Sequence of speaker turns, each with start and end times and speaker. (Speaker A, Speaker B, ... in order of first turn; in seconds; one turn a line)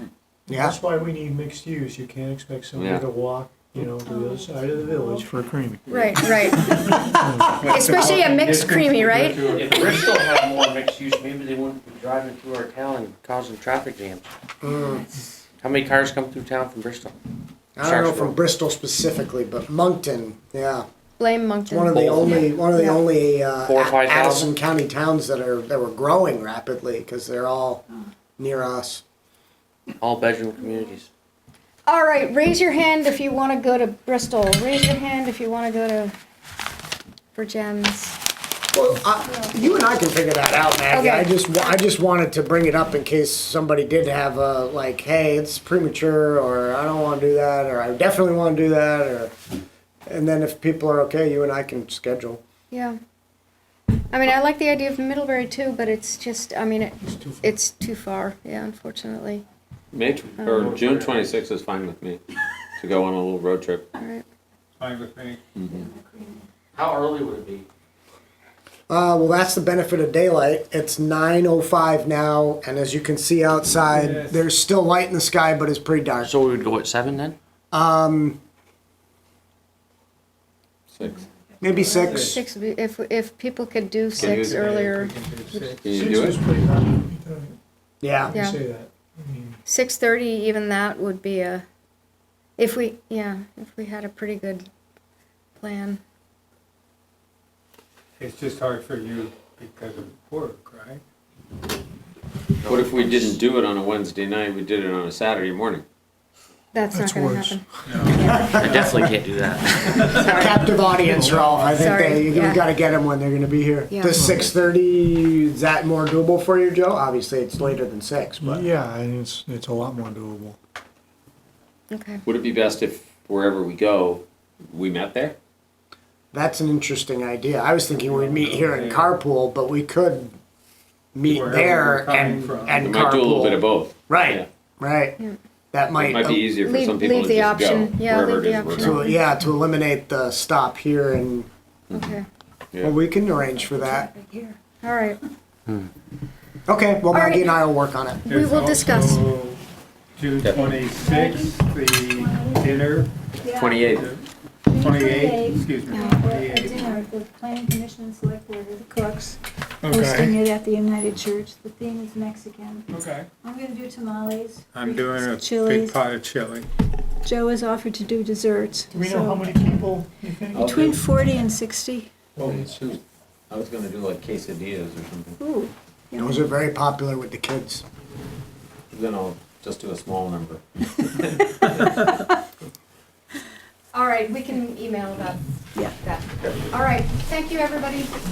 Speaker A: 0.5-8.0
Speaker B: 0.5-0.8
Speaker C: 2.8-3.0
Speaker D: 4.1-4.5
Speaker D: 5.9-9.4
Speaker C: 5.9-6.2
Speaker E: 7.4-10.3
Speaker F: 9.3-14.3
Speaker B: 14.6-15.1
Speaker F: 15.6-17.1
Speaker B: 17.8-20.9
Speaker F: 17.8-18.4
Speaker D: 21.2-22.0
Speaker B: 21.7-27.8
Speaker F: 21.9-22.5
Speaker D: 22.6-23.0
Speaker F: 23.6-24.5
Speaker B: 28.4-29.0
Speaker F: 30.0-31.1
Speaker D: 31.9-36.1
Speaker D: 37.4-38.2
Speaker B: 38.7-49.3
Speaker D: 40.9-41.7
Speaker B: 50.1-52.4
Speaker D: 52.7-53.0
Speaker D: 54.1-59.5
Speaker A: 57.0-57.5
Speaker C: 59.9-62.2
Speaker F: 60.4-61.3
Speaker D: 60.4-60.8
Speaker C: 62.8-63.9
Speaker D: 64.0-64.2
Speaker E: 64.8-65.4
Speaker C: 65.5-65.9
Speaker G: 65.7-66.5
Speaker F: 66.8-67.7
Speaker B: 68.9-76.3
Speaker E: 73.9-74.5
Speaker F: 76.2-77.4
Speaker B: 77.7-78.4
Speaker C: 80.9-81.3
Speaker B: 81.6-82.4
Speaker E: 81.7-82.4
Speaker D: 81.8-85.8
Speaker E: 84.2-85.8
Speaker C: 84.2-84.6
Speaker C: 85.8-86.4
Speaker A: 85.8-87.6
Speaker B: 88.0-88.4
Speaker A: 88.2-89.6
Speaker D: 88.3-88.6
Speaker D: 89.7-91.6
Speaker D: 92.6-94.7
Speaker D: 95.6-96.0
Speaker E: 98.2-101.0
Speaker F: 102.6-103.4
Speaker C: 102.7-105.8
Speaker D: 106.7-108.6
Speaker A: 106.9-108.9
Speaker E: 107.9-108.3
Speaker B: 108.3-109.1
Speaker F: 108.5-110.1
Speaker A: 109.7-110.1
Speaker D: 110.1-110.8
Speaker B: 110.1-118.7
Speaker A: 111.0-111.6
Speaker D: 111.7-112.6
Speaker D: 113.9-114.2
Speaker A: 114.1-114.5
Speaker A: 118.4-120.6
Speaker D: 121.9-122.2
Speaker C: 122.2-125.4
Speaker B: 126.3-130.3
Speaker E: 128.0-129.2
Speaker B: 131.2-135.2
Speaker E: 131.2-132.9
Speaker C: 132.7-134.5
Speaker B: 135.7-136.4
Speaker C: 135.9-139.0
Speaker D: 136.5-139.2
Speaker B: 138.8-141.5
Speaker D: 141.9-142.3
Speaker B: 142.8-144.1
Speaker G: 143.5-144.6
Speaker D: 144.8-145.2
Speaker B: 146.7-148.2
Speaker D: 147.1-147.6
Speaker D: 148.2-149.2
Speaker E: 148.3-149.6
Speaker E: 150.2-153.1
Speaker C: 150.4-150.8
Speaker G: 150.5-152.8
Speaker G: 153.4-154.0
Speaker C: 153.5-154.1
Speaker E: 153.9-157.0
Speaker G: 154.7-162.9
Speaker D: 155.9-156.2
Speaker E: 159.8-160.4
Speaker A: 159.9-160.3
Speaker E: 162.9-163.3
Speaker G: 163.4-166.0
Speaker E: 164.7-166.7
Speaker G: 167.2-169.6
Speaker A: 168.9-170.8
Speaker G: 170.5-172.1
Speaker C: 170.6-171.0
Speaker A: 172.3-172.8
Speaker C: 172.4-175.4
Speaker G: 175.4-176.4
Speaker B: 176.2-177.8
Speaker C: 178.9-180.6
Speaker D: 183.9-188.1
Speaker C: 186.4-186.7